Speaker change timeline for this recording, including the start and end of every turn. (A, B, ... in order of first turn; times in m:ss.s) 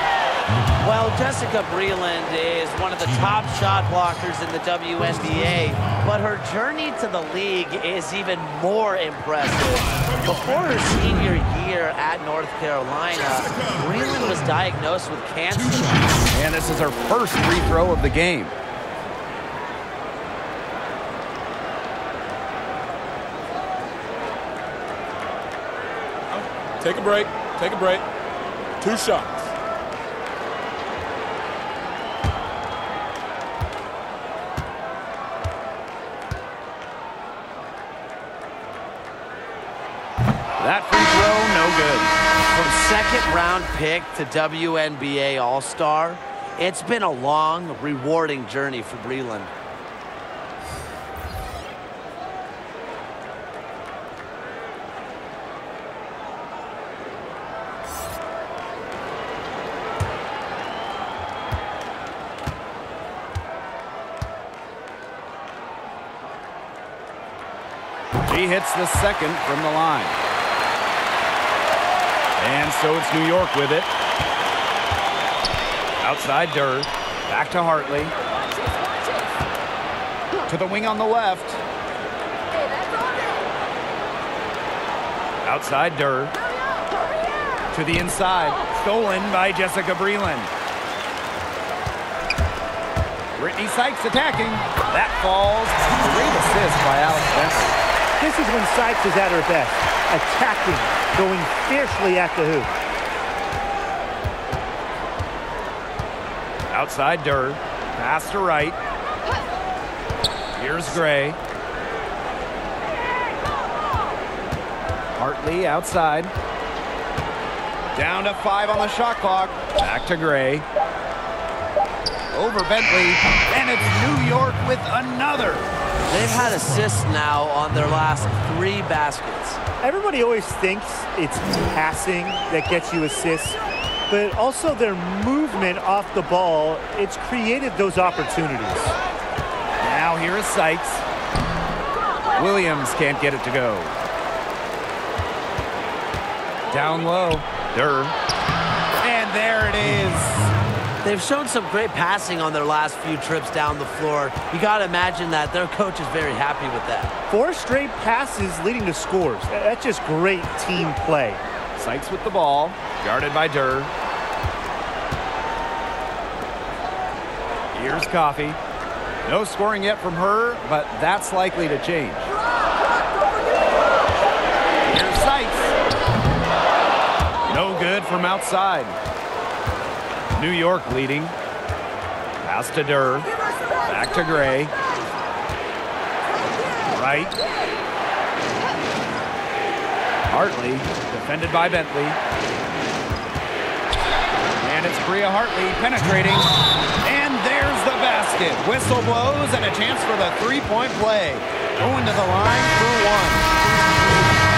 0:00.8-0:16.1 A
0:03.2-0:03.6 B
0:05.0-0:06.0 B
0:09.9-0:11.4 B
0:13.2-0:14.5 B
0:15.5-0:16.3 B
0:16.3-0:18.5 C
0:26.3-0:28.0 B
0:28.8-0:29.5 B
0:40.6-0:42.1 C
0:42.5-0:49.5 A
1:08.2-1:10.2 C
1:12.4-1:13.9 C
1:16.0-1:18.1 C
1:20.5-1:21.6 C
1:25.4-1:26.4 C
1:27.7-1:30.5 C
1:33.4-1:37.8 C
1:38.2-1:42.7 D
1:46.7-1:48.8 C
1:50.6-1:51.4 C
1:55.2-1:56.3 C
1:58.0-2:00.7 C
2:02.3-2:05.7 C
2:06.1-2:09.6 A
2:06.1-2:07.1 B
2:09.8-2:13.6 D
2:14.1-2:18.9 D
2:19.8-2:21.0 C
2:22.4-2:23.9 C
2:26.7-2:28.1 C
2:29.0-2:30.5 C
2:31.0-2:37.1 A
2:37.3-2:41.4 D
2:41.8-2:43.9 C
2:47.7-2:48.6 C
2:49.2-2:52.4 C
2:54.8-2:55.8 C
2:57.5-2:59.0 C
3:00.3-3:01.4 C
3:02.4-3:04.7 C
3:06.8-3:07.4 C
3:10.3-3:12.2 C
3:14.6-3:23.5 C